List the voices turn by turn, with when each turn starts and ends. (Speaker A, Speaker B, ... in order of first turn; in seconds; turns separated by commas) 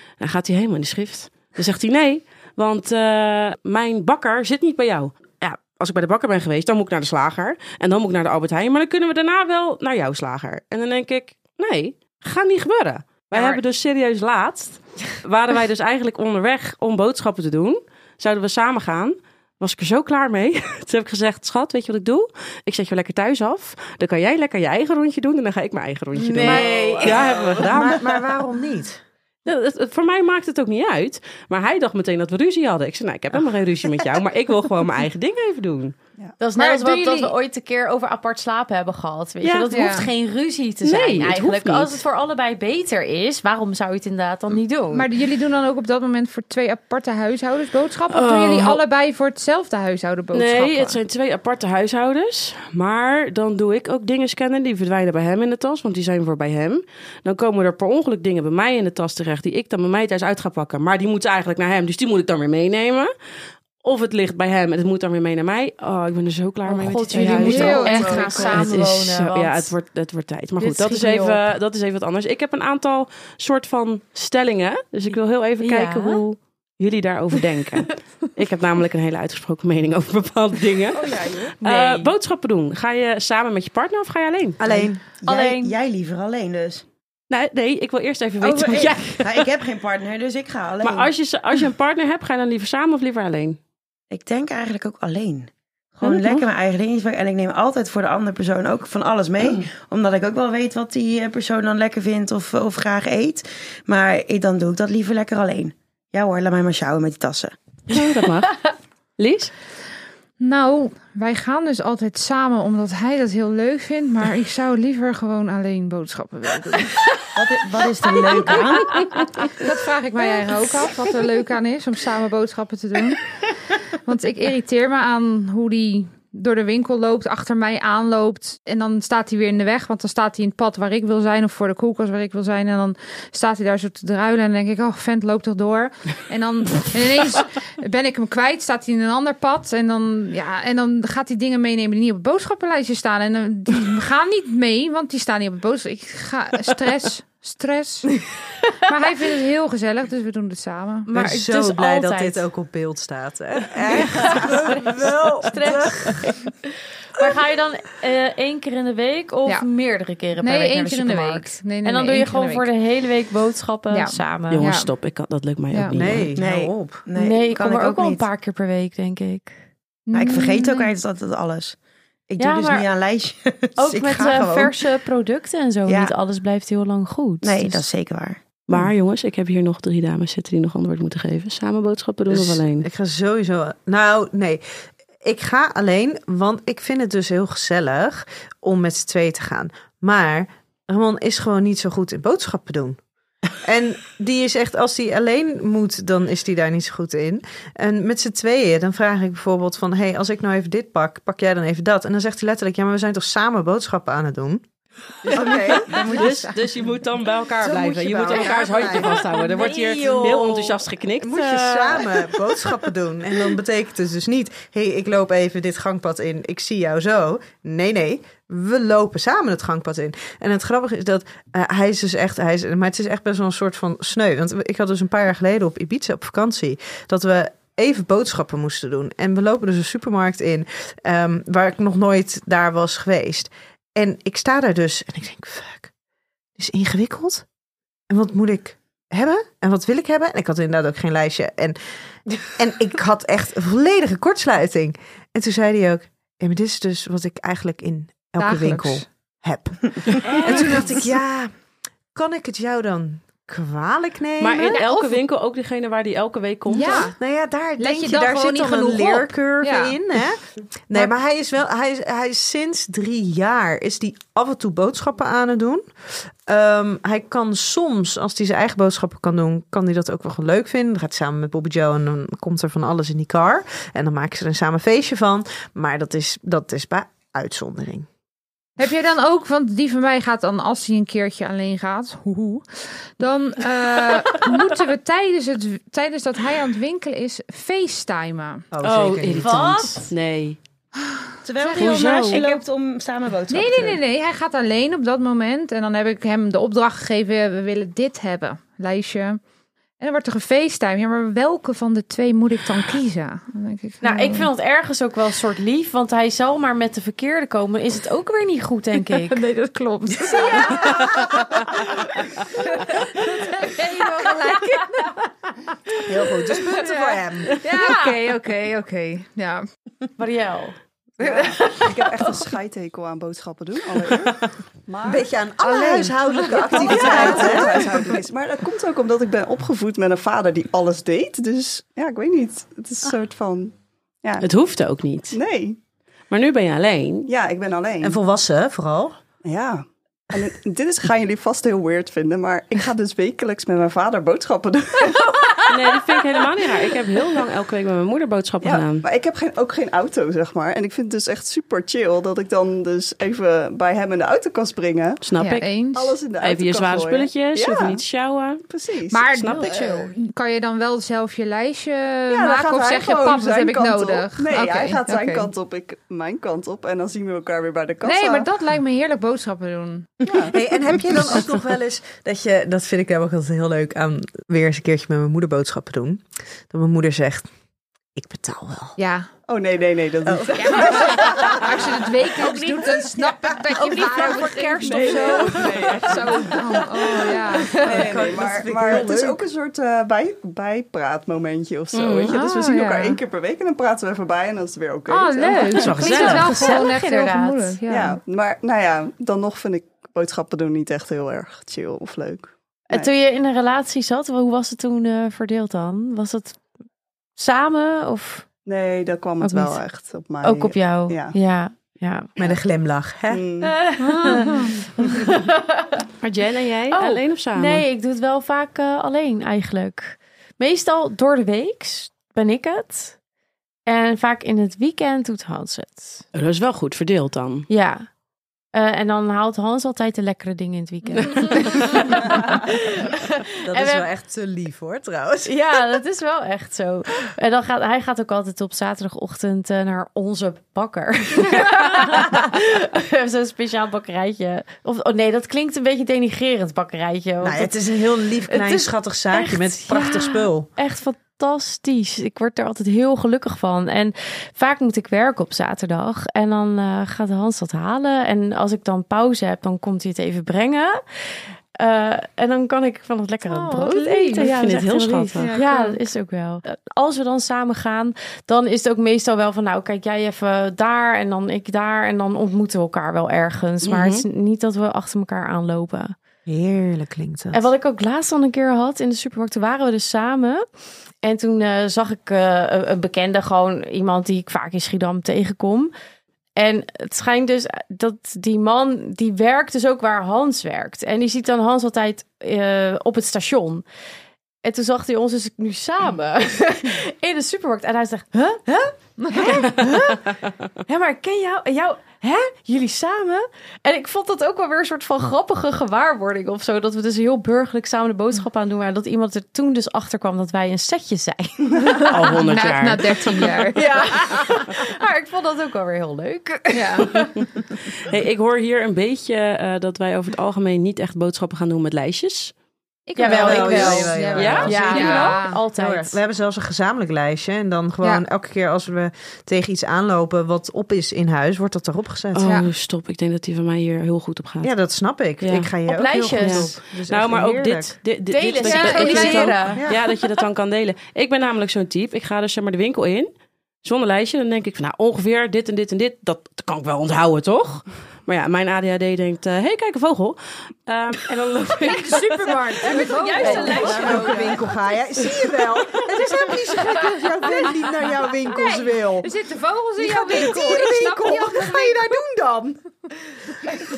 Speaker A: 0.2-28.1, Speaker B: 13.3-13.6, Speaker C: 26.1-29.0, Speaker B: 26.4-27.2, Speaker A: 29.4-35.9, Speaker B: 36.4-45.1, Speaker D: 36.6-37.3, Speaker A: 39.4-39.7, Speaker D: 39.7-40.1, Speaker A: 40.8-41.9, Speaker D: 44.9-51.0, Speaker A: 48.1-48.8, Speaker A: 50.3-63.1, Speaker A: 63.8-84.6, Speaker B: 66.6-69.7, Speaker D: 67.1-68.8, Speaker E: 67.5-68.5, Speaker B: 70.6-71.5, Speaker B: 75.6-76.2, Speaker D: 81.0-81.5, Speaker B: 81.6-82.1, Speaker C: 84.6-85.0, Speaker F: 84.6-86.8, Speaker A: 87.3-89.5, Speaker F: 88.4-91.1, Speaker A: 90.8-93.6, Speaker F: 94.1-107.5, Speaker A: 96.0-96.3, Speaker A: 107.9-109.5, Speaker D: 110.4-117.2, Speaker F: 117.3-119.7, Speaker D: 119.6-123.3, Speaker D: 123.9-148.2, Speaker D: 148.8-151.1, Speaker B: 151.1-152.4, Speaker C: 151.1-156.3, Speaker B: 153.9-154.9, Speaker B: 155.4-156.5, Speaker B: 157.2-164.7, Speaker D: 160.4-162.7, Speaker D: 163.9-164.9, Speaker A: 164.5-166.3, Speaker C: 165.9-167.0, Speaker F: 166.3-168.3, Speaker B: 167.2-169.6, Speaker D: 170.1-170.9, Speaker F: 170.1-171.8, Speaker F: 172.3-174.8, Speaker B: 172.4-172.9, Speaker B: 173.8-177.8, Speaker F: 175.9-176.1, Speaker F: 177.4-178.8, Speaker A: 178.7-182.9, Speaker C: 182.3-184.6, Speaker C: 185.2-193.0, Speaker C: 193.6-204.6, Speaker A: 205.2-212.2, Speaker C: 205.3-206.0, Speaker D: 205.4-206.6, Speaker C: 207.6-209.2, Speaker B: 208.3-210.8, Speaker C: 211.2-235.9, Speaker C: 236.6-237.4, Speaker C: 238.1-241.8, Speaker C: 242.4-251.5, Speaker D: 248.4-249.0, Speaker A: 250.2-250.9, Speaker C: 252.1-254.8, Speaker A: 254.4-257.1, Speaker D: 256.7-257.2, Speaker C: 257.2-278.1, Speaker D: 257.8-259.9, Speaker D: 278.8-288.6, Speaker C: 288.7-289.9, Speaker A: 288.8-290.6, Speaker B: 289.2-290.1, Speaker F: 291.4-294.0, Speaker D: 291.6-292.5, Speaker A: 291.8-292.5, Speaker D: 293.5-299.4, Speaker D: 300.0-304.5, Speaker B: 304.0-309.4, Speaker D: 309.0-315.3, Speaker D: 315.9-319.6, Speaker C: 316.1-317.5, Speaker B: 320.2-322.2, Speaker E: 321.2-334.5, Speaker C: 325.1-328.1, Speaker A: 334.4-335.4, Speaker E: 335.3-335.8, Speaker A: 336.3-337.3, Speaker E: 337.3-338.2, Speaker C: 338.0-339.2, Speaker E: 339.4-345.6, Speaker A: 345.7-349.1, Speaker E: 348.6-355.2, Speaker A: 355.2-355.6, Speaker D: 355.4-356.2, Speaker E: 355.9-358.0, Speaker A: 356.4-358.6, Speaker E: 358.7-360.1, Speaker D: 359.1-365.5, Speaker A: 359.3-359.8, Speaker E: 362.3-368.5, Speaker D: 368.0-370.2, Speaker E: 370.2-370.6, Speaker C: 370.5-377.5, Speaker C: 378.1-379.0, Speaker D: 379.0-379.3, Speaker E: 379.5-381.7, Speaker C: 380.2-381.6, Speaker D: 380.6-388.0, Speaker C: 382.4-385.6, Speaker B: 383.8-385.3, Speaker E: 384.8-395.9, Speaker C: 387.8-389.4, Speaker A: 391.9-392.3, Speaker D: 392.3-393.2, Speaker D: 395.1-398.2, Speaker A: 395.7-396.8, Speaker B: 395.9-397.8, Speaker E: 397.9-403.1, Speaker B: 402.9-406.6, Speaker B: 407.4-408.4, Speaker E: 408.6-411.4, Speaker B: 409.4-409.8, Speaker B: 410.4-412.3, Speaker C: 412.4-413.4, Speaker E: 413.3-413.8, Speaker B: 413.6-416.0, Speaker D: 414.0-414.8, Speaker A: 416.2-417.8, Speaker B: 416.9-423.1, Speaker B: 423.9-426.2, Speaker A: 426.3-427.7, Speaker B: 427.7-428.1, Speaker B: 428.7-434.1, Speaker C: 433.6-436.0, Speaker B: 435.4-447.8, Speaker C: 447.4-450.7, Speaker B: 448.5-461.0, Speaker B: 461.8-476.1, Speaker C: 463.5-464.4, Speaker A: 464.4-465.5, Speaker C: 465.4-465.9, Speaker A: 473.8-474.2, Speaker C: 476.4-477.7, Speaker B: 477.5-480.6, Speaker B: 481.2-485.9, Speaker B: 486.6-493.8, Speaker B: 494.6-500.3, Speaker D: 499.2-499.7, Speaker B: 500.9-512.3, Speaker D: 511.9-514.4, Speaker A: 512.0-513.6, Speaker B: 513.7-517.3, Speaker D: 516.7-517.3, Speaker A: 517.9-522.5, Speaker D: 523.1-525.6, Speaker B: 523.1-526.2, Speaker C: 523.2-532.5, Speaker A: 524.3-525.4, Speaker A: 532.3-534.7, Speaker C: 534.6-538.0, Speaker A: 535.4-535.7, Speaker B: 535.9-536.7, Speaker A: 536.4-543.3, Speaker B: 538.3-539.8, Speaker D: 538.6-539.6, Speaker C: 539.6-540.0, Speaker A: 543.8-554.5, Speaker D: 551.8-554.4, Speaker B: 552.8-554.5, Speaker C: 553.4-559.3, Speaker D: 558.5-562.2, Speaker C: 560.0-562.8